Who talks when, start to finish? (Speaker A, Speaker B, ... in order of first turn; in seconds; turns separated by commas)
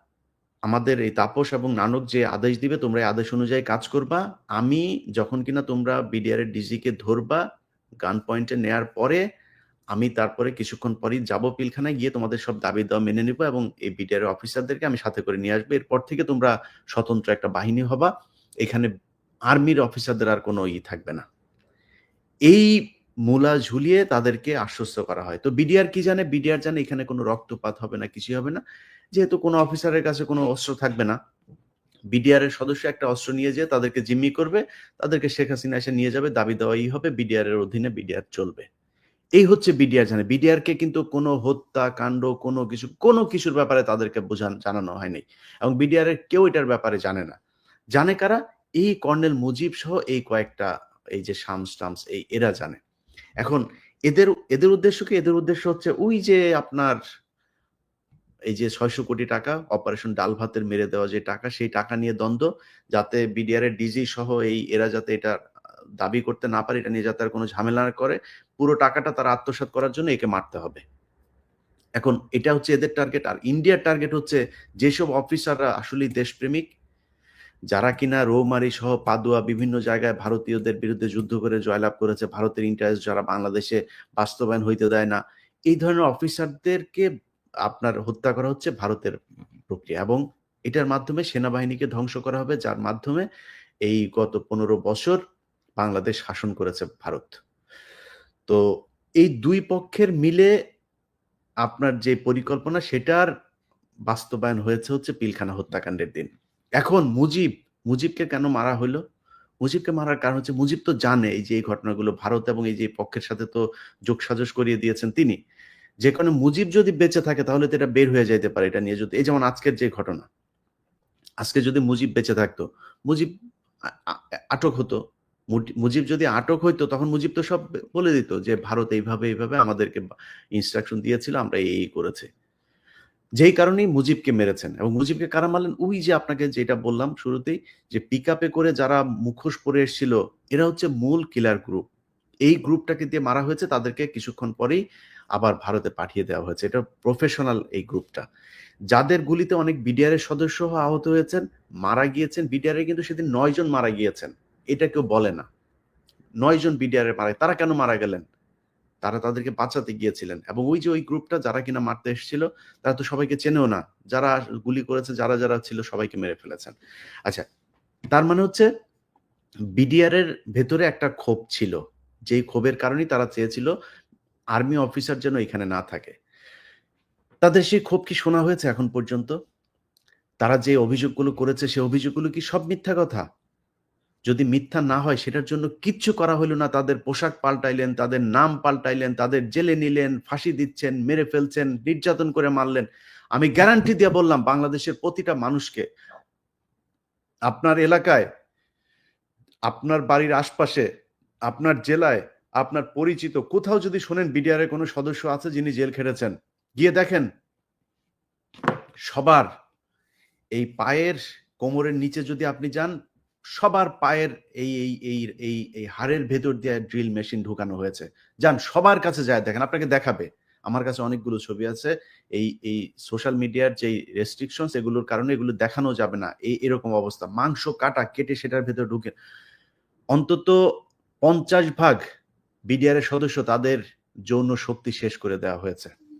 Speaker A: 0.6-7.4, Speaker A: 8.0-9.2, Speaker A: 9.9-18.1, Speaker A: 18.6-18.9, Speaker A: 19.5-21.2, Speaker A: 22.5-22.7, Speaker A: 23.3-28.6, Speaker A: 29.1-31.2, Speaker A: 32.1-38.7, Speaker A: 39.4-47.4, Speaker A: 48.0-52.8, Speaker A: 53.4-57.0, Speaker A: 58.5-65.4, Speaker A: 66.0-70.8, Speaker A: 72.0-76.7, Speaker A: 77.7-87.0, Speaker A: 87.7-89.2, Speaker A: 89.7-93.3, Speaker A: 93.8-95.2, Speaker A: 95.8-97.4, Speaker A: 99.2-100.5, Speaker A: 101.6-103.3, Speaker A: 104.1-109.0, Speaker A: 109.6-115.4, Speaker A: 116.0-120.2, Speaker A: 121.4-123.3, Speaker A: 123.9-125.0, Speaker A: 125.5-132.3, Speaker A: 133.4-141.8, Speaker A: 142.4-144.8, Speaker A: 145.3-148.2, Speaker A: 148.9-155.5, Speaker A: 156.4-158.2, Speaker A: 159.0-166.8, Speaker A: 168.1-168.7, Speaker A: 169.8-171.8, Speaker A: 172.3-173.7, Speaker A: 174.5-176.1, Speaker A: 177.4-179.3, Speaker A: 180.4-183.2, Speaker A: 184.3-195.8, Speaker A: 197.5-198.3, Speaker A: 199.7-200.9, Speaker A: 201.5-207.3, Speaker A: 209.1-209.5, Speaker A: 210.6-212.9, Speaker A: 213.6-229.1, Speaker A: 230.1-230.6, Speaker A: 231.2-232.0, Speaker A: 232.7-233.8, Speaker A: 234.3-235.9